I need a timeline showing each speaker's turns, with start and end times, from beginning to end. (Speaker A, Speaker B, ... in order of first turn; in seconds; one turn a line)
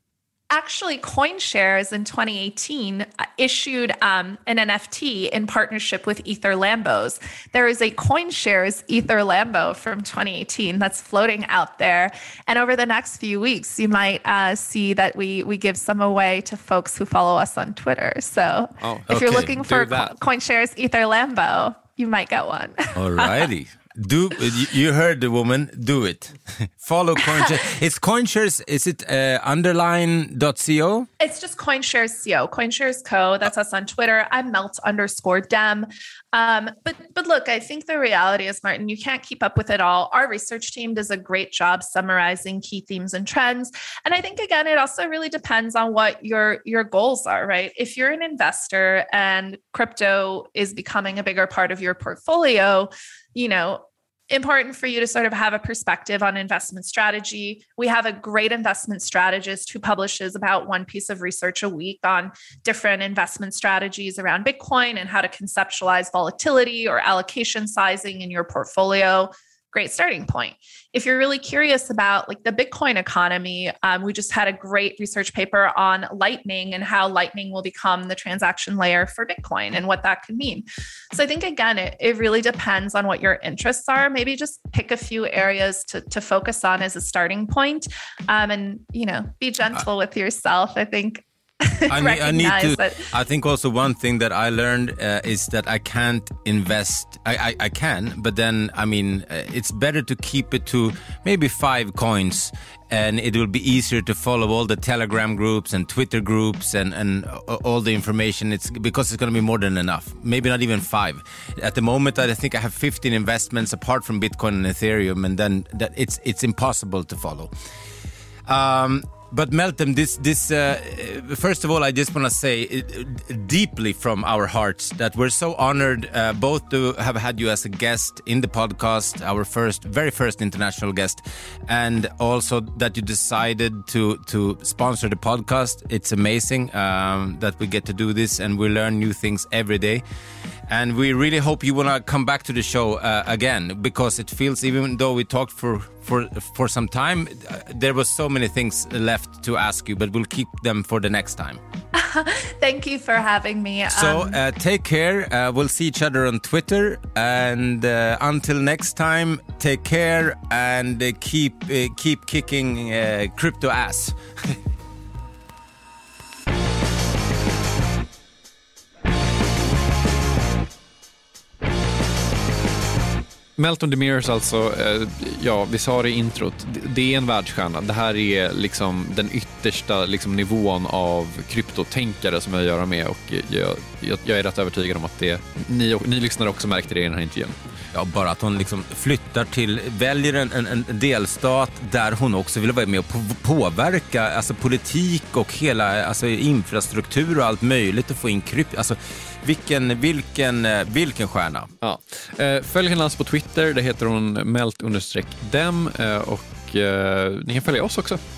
Speaker A: 0.5-23.4
Speaker B: 18.8-20.1
Speaker C: 19.1-19.5
Speaker C: 22.9-31.1
Speaker A: 31.2-93.1
Speaker C: 91.9-117.5
Speaker C: 118.5-140.0
Speaker C: 140.7-151.6
Speaker A: 151.9-154.4
Speaker C: 153.9-164.6
Speaker B: 173.6-187.5
Speaker C: 187.9-201.7
Speaker B: 201.8-208.2